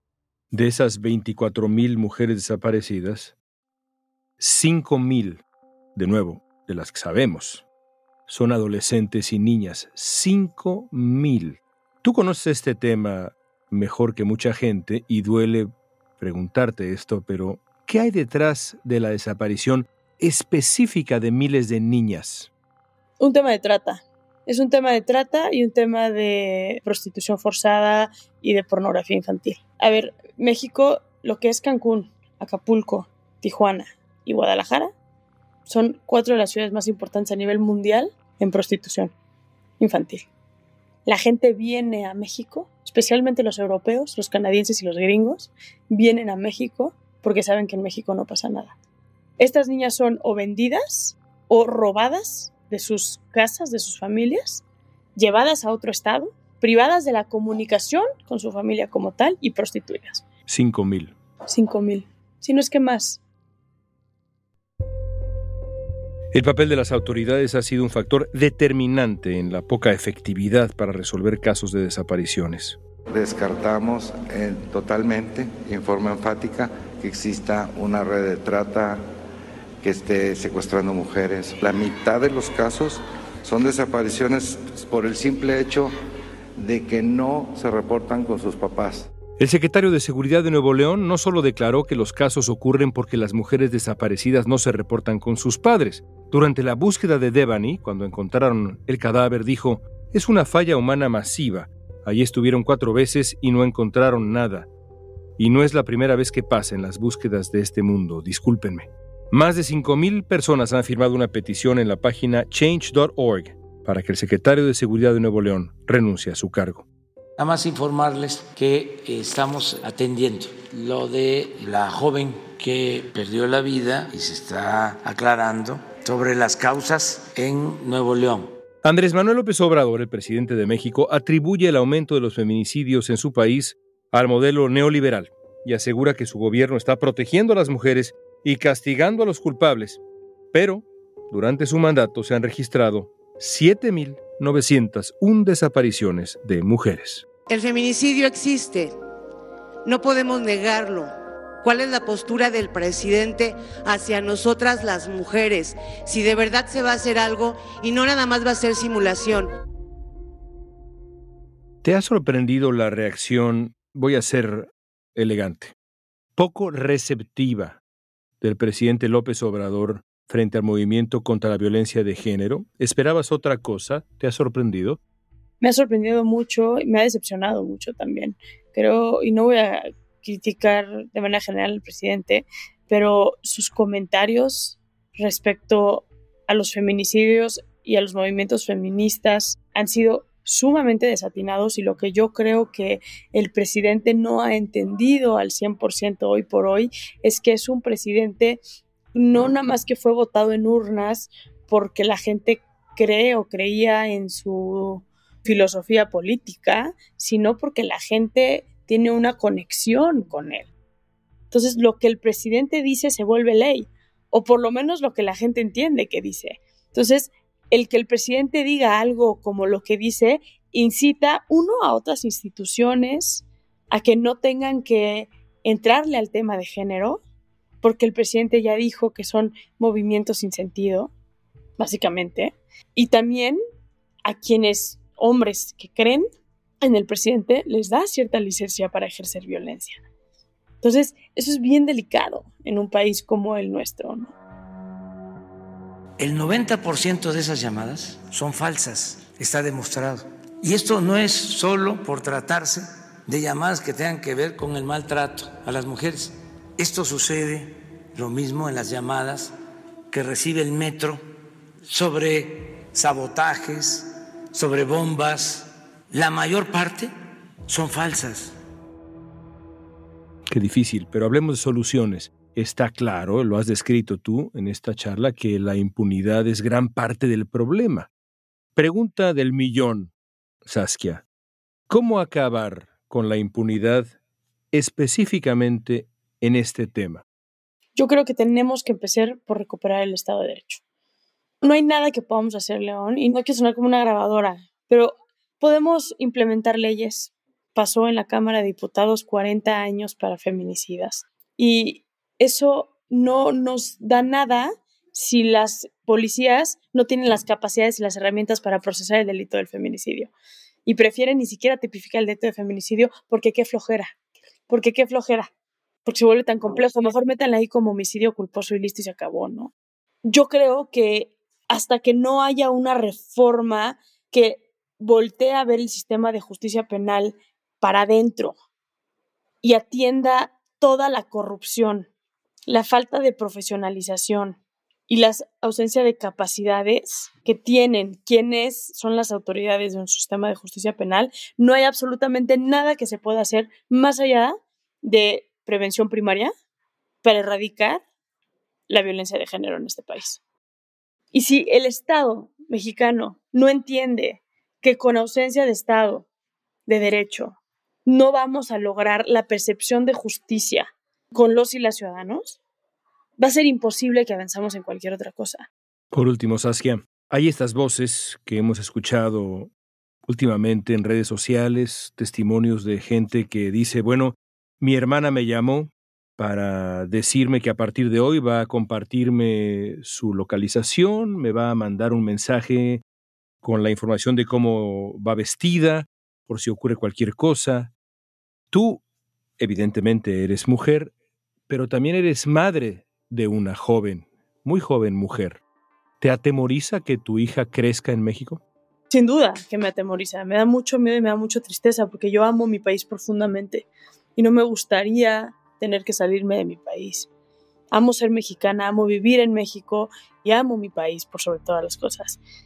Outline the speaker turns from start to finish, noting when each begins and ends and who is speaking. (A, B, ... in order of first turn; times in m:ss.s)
0:00.5-0:03.3 A
0:04.4-0:05.4 A
0:06.0-0:07.6 A
0:08.3-0:22.5 A
0:23.2-0:34.9 B
0:35.7-0:39.1 B
0:39.8-0:40.3 B
0:41.1-0:48.7 B
0:49.4-0:54.6 B
0:55.1-1:00.2 B
1:00.5-1:01.1 A
1:01.5-1:03.2 B
1:06.3-1:12.8 A
1:13.1-1:19.0 C
1:19.8-1:26.0 C
1:26.6-1:29.1 C
1:29.4-1:44.7 A
1:45.4-1:56.8 A
1:57.4-2:08.5 D
2:08.8-2:20.0 A
2:20.5-2:27.2 A
2:27.5-2:28.9 E
2:29.8-2:39.5 E
2:41.8-2:45.7 A
2:46.4-2:47.8 A
2:48.4-2:55.0 A
2:55.6-3:18.6 B
3:19.1-3:30.7 B
3:31.5-3:47.2 B
3:47.8-3:51.1 B
3:51.8-3:53.6 B
3:54.2-3:56.2 B
3:56.8-4:00.0 B
4:00.8-4:04.3 B
4:06.2-4:19.5 D
4:20.1-4:21.2 D
4:21.9-4:27.1 D
4:27.7-4:28.5 D
4:30.5-4:38.1 A
4:38.8-4:40.1 A
4:40.6-4:41.2 A
4:41.9-4:44.1 A
4:44.7-4:47.2 A
4:48.0-4:50.8 B
4:51.6-5:10.3 B
5:10.9-5:14.1 B
5:14.7-5:15.5 B
5:16.0-5:19.7 B
5:20.2-5:28.5 B
5:29.6-5:32.1 B
5:32.7-5:46.5 B
5:47.2-5:48.0 B
5:48.9-5:50.4 B
5:51.3-5:56.2 B
5:56.9-6:02.6 B
6:03.4-6:05.7 B
6:06.1-6:09.7 A
6:10.3-6:23.0 A
6:23.6-6:27.9 A
6:28.7-6:29.0 A
6:29.6-6:31.1 A
6:31.7-6:35.6 A
6:36.2-6:38.6 A
6:39.1-6:47.3 B
6:47.9-6:52.4 B